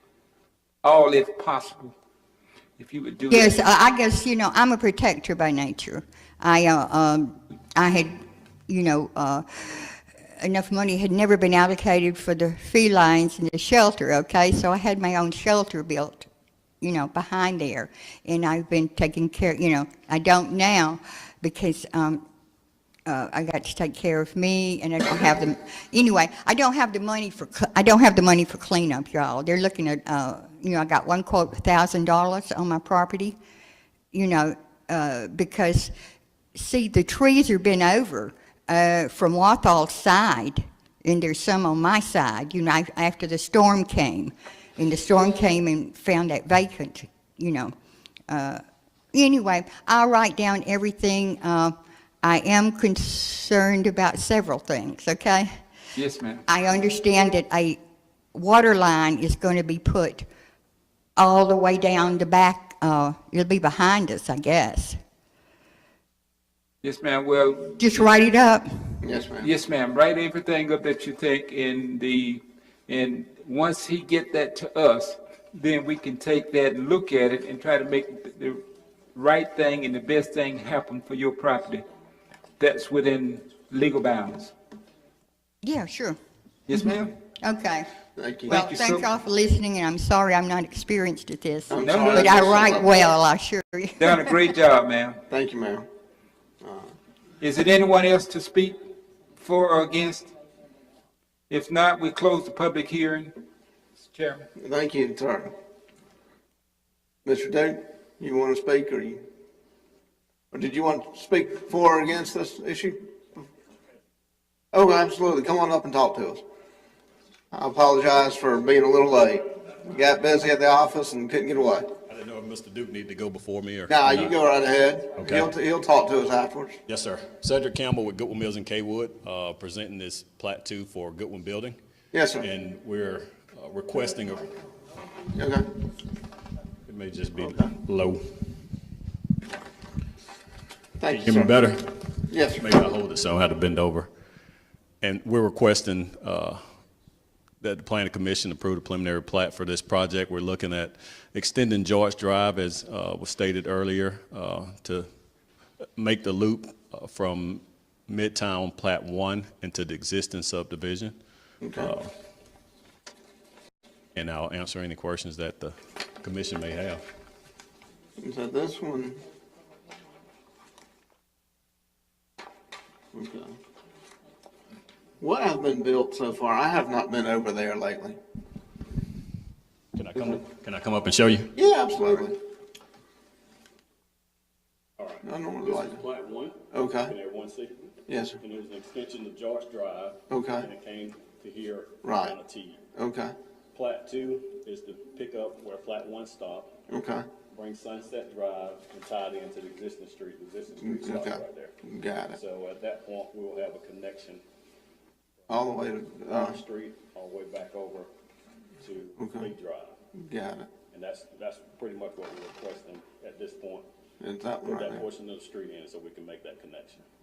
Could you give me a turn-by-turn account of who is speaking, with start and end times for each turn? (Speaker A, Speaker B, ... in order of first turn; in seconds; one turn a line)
Speaker A: 0.8-1.9
Speaker A: 2.8-3.6
Speaker B: 3.3-16.3
Speaker B: 16.8-22.2
Speaker B: 23.1-33.4
Speaker B: 34.1-35.9
Speaker B: 36.5-47.7
Speaker B: 48.3-48.6
Speaker B: 49.1-55.5
Speaker A: 56.0-56.4
Speaker B: 56.5-57.8
Speaker B: 58.3-60.3
Speaker B: 61.2-65.0
Speaker A: 66.8-68.0
Speaker B: 67.8-69.0
Speaker C: 69.0-69.5
Speaker A: 69.4-78.6
Speaker A: 79.1-81.8
Speaker A: 82.6-84.5
Speaker B: 85.6-86.2
Speaker A: 86.7-87.1
Speaker B: 87.4-87.9
Speaker C: 88.2-88.6
Speaker B: 88.5-94.3
Speaker A: 88.5-89.0
Speaker C: 91.7-92.9
Speaker A: 91.8-92.7
Speaker A: 94.0-95.2
Speaker C: 95.3-95.9
Speaker C: 96.6-96.9
Speaker A: 97.4-98.8
Speaker A: 99.4-100.3
Speaker A: 101.5-103.3
Speaker A: 104.0-104.5
Speaker C: 104.6-105.5
Speaker C: 107.2-109.2
Speaker C: 110.5-113.1
Speaker C: 114.7-116.4
Speaker C: 117.5-121.9
Speaker D: 122.0-124.3
Speaker C: 123.9-126.8
Speaker D: 125.2-125.5
Speaker D: 126.9-131.8
Speaker C: 132.1-132.5
Speaker D: 132.3-134.5
Speaker C: 135.3-135.7
Speaker D: 136.8-138.6
Speaker C: 141.0-141.6
Speaker D: 141.1-144.1
Speaker C: 142.3-142.7
Speaker D: 145.0-146.6
Speaker D: 147.6-155.1
Speaker D: 156.0-161.2
Speaker C: 161.6-161.9
Speaker D: 161.7-162.1
Speaker D: 164.1-167.0
Speaker C: 168.2-169.2
Speaker C: 173.1-173.6
Speaker C: 175.2-178.2
Speaker D: 179.9-181.6
Speaker C: 181.5-182.4
Speaker D: 185.0-192.8
Speaker C: 185.2-186.0
Speaker C: 186.7-187.1
Speaker C: 188.1-188.4
Speaker C: 190.3-190.7
Speaker C: 192.0-192.3
Speaker C: 192.9-193.3
Speaker D: 193.7-196.8
Speaker C: 196.9-197.2
Speaker D: 197.5-201.7
Speaker C: 200.8-202.4
Speaker D: 202.3-204.4
Speaker C: 205.5-206.6
Speaker D: 206.2-208.1
Speaker D: 208.8-209.9
Speaker C: 209.2-209.5
Speaker C: 210.1-210.7
Speaker D: 210.9-213.9
Speaker C: 214.2-215.0
Speaker D: 214.6-217.0